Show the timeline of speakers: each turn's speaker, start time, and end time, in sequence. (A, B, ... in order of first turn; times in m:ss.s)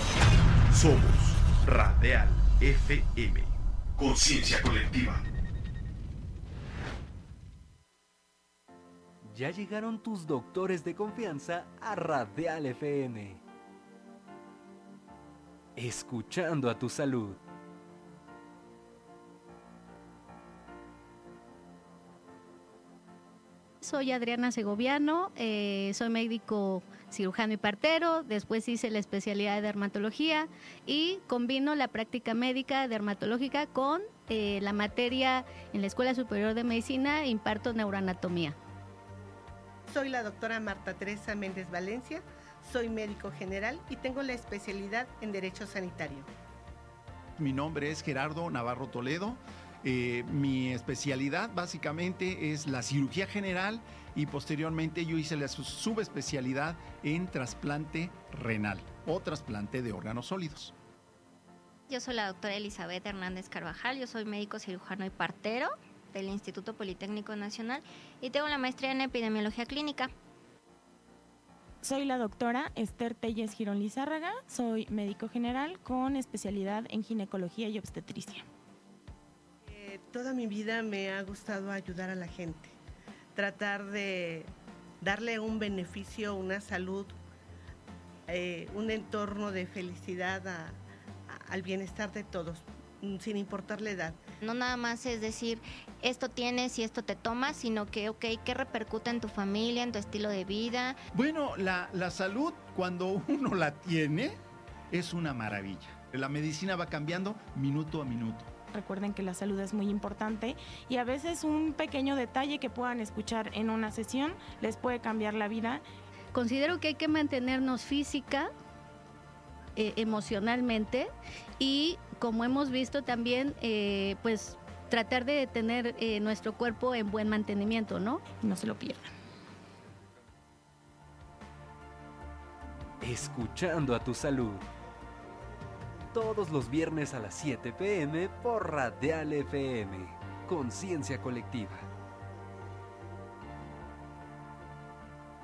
0:00.7-0:05.2 A
0:09.3-0:13.4 B
0:15.8-0:17.4 B
0:23.8-0:38.6 C
0:39.9-0:46.3 D
0:47.4-1:00.7 E
1:01.9-1:10.1 F
1:11.8-1:18.4 G
1:19.6-1:22.7 D
1:23.3-1:24.5 D
1:25.0-1:27.1 D
1:28.3-1:30.8 D
1:31.3-1:34.2 D
1:34.4-1:41.0 F
1:41.1-1:44.4 E
1:44.9-1:48.5 E
1:48.7-1:55.8 G
1:56.3-1:58.5 C
1:59.8-2:08.2 C
2:08.4-2:09.1 G
2:13.0-2:14.6 B
2:16.1-2:21.8 B